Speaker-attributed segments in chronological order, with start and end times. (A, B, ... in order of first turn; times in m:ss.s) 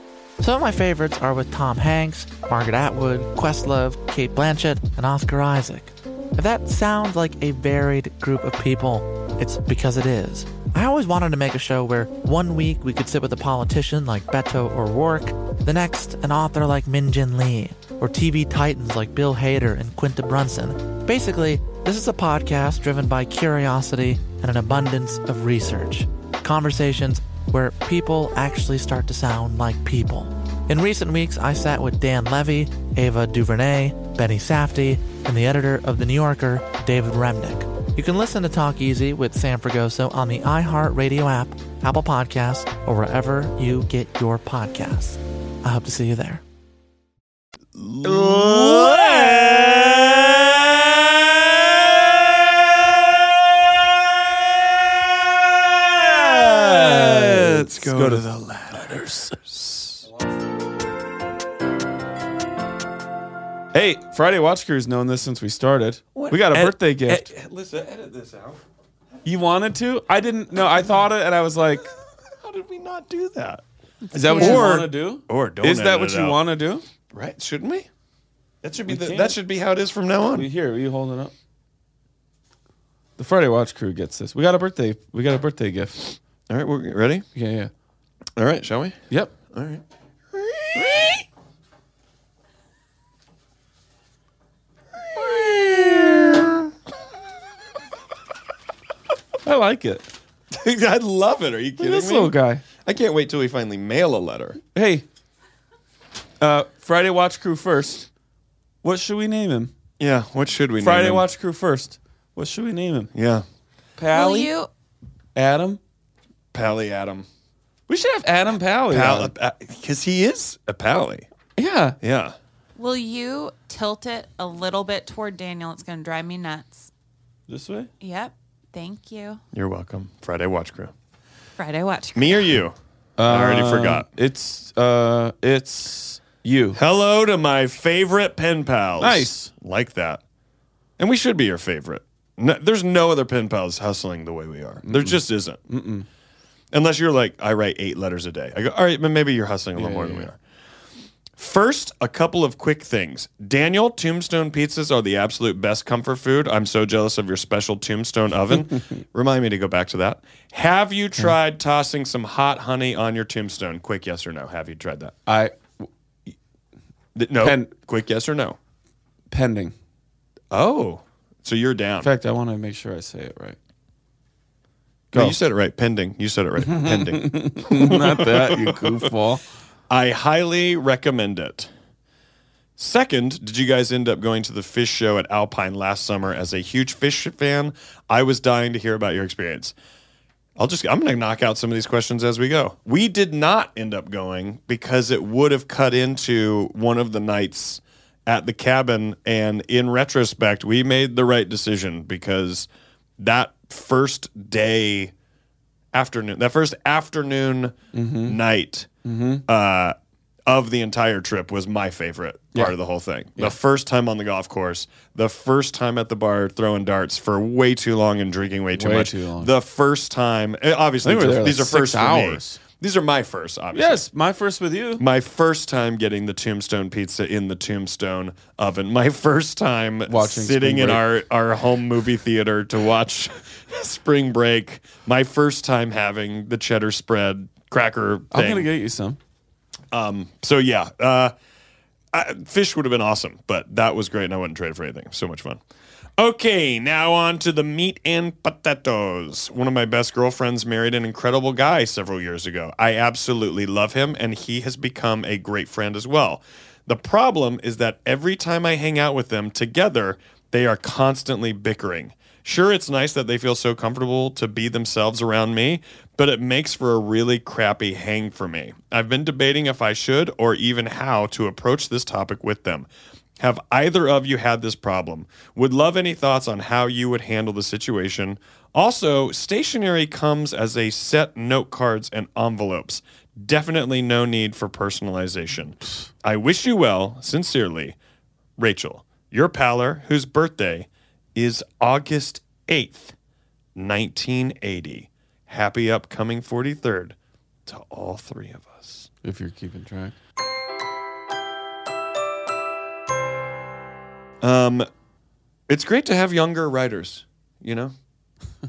0:00.4-0:46.4 A
0:47.7-0:52.1 B
0:48.0-0:49.8 C
0:53.1-0:53.8 B
0:54.6-1:00.0 B
0:56.2-0:59.3 C
1:00.0-1:00.4 C
1:03.7-1:07.3 C
1:06.1-1:08.6 B
1:09.2-1:11.9 C
1:12.4-1:13.6 B
1:14.0-1:14.7 D
1:14.1-1:16.8 C
1:14.3-1:16.4 B
1:17.1-1:17.9 B
1:18.6-1:20.5 B
1:18.8-1:19.4 C
1:20.3-1:21.3 C
1:23.2-1:26.2 C
1:26.5-1:27.2 B
1:27.3-1:27.7 C
1:28.4-1:31.2 B
1:35.0-1:36.5 B
1:39.4-1:40.1 C
1:40.5-1:44.6 B
1:41.8-1:42.6 C
1:44.6-1:45.0 C
1:46.4-1:48.1 C
1:48.8-1:49.7 C
1:50.0-1:51.3 B
1:50.8-1:53.1 C
1:53.1-1:53.4 B
1:54.0-1:54.5 C
1:54.1-1:54.7 D
1:55.3-1:55.8 C
1:56.5-1:57.3 B
1:57.9-1:59.3 C
1:58.9-2:01.3 B
2:01.6-2:02.0 C
2:02.0-2:02.4 B
2:02.8-2:06.9 D
2:07.5-2:07.9 C
2:08.0-2:09.4 D
2:09.5-2:10.9 B
2:11.6-2:12.5 D
2:12.2-2:12.7 B
2:13.2-2:16.8 C
2:13.3-2:14.1 B
2:16.7-2:20.2 B
2:19.0-2:19.5 C
2:21.0-2:25.6 B
2:24.8-2:26.0 C
2:26.7-2:30.4 B
2:29.8-2:30.3 C
2:31.4-2:45.2 B
2:45.2-2:46.3 C
2:47.1-2:48.6 B
2:47.4-2:47.7 C
2:49.3-2:49.7 C
2:50.5-2:52.1 B
2:52.0-2:53.6 C
2:55.1-2:59.1 B
2:55.1-2:55.4 C
2:56.6-2:59.4 C
2:59.9-3:01.7 B
3:02.8-3:09.7 B
3:10.6-3:22.7 B
3:23.2-3:25.1 B
3:25.9-3:28.9 B
3:27.9-3:28.4 C
3:29.0-3:29.4 C
3:29.5-3:29.9 B
3:30.5-3:44.0 B
3:38.7-3:39.5 C
3:41.0-3:42.6 C
3:43.7-3:45.0 C
3:45.0-3:58.7 B
3:50.1-3:51.0 C
3:58.3-3:59.2 C
3:59.9-4:01.3 B
4:02.1-4:05.6 B
4:06.2-4:48.0 B
4:48.6-4:53.1 B
4:53.8-4:57.1 B
4:57.6-4:59.1 B
4:59.2-5:00.1 C
5:04.4-5:04.9 B
5:05.7-5:07.9 B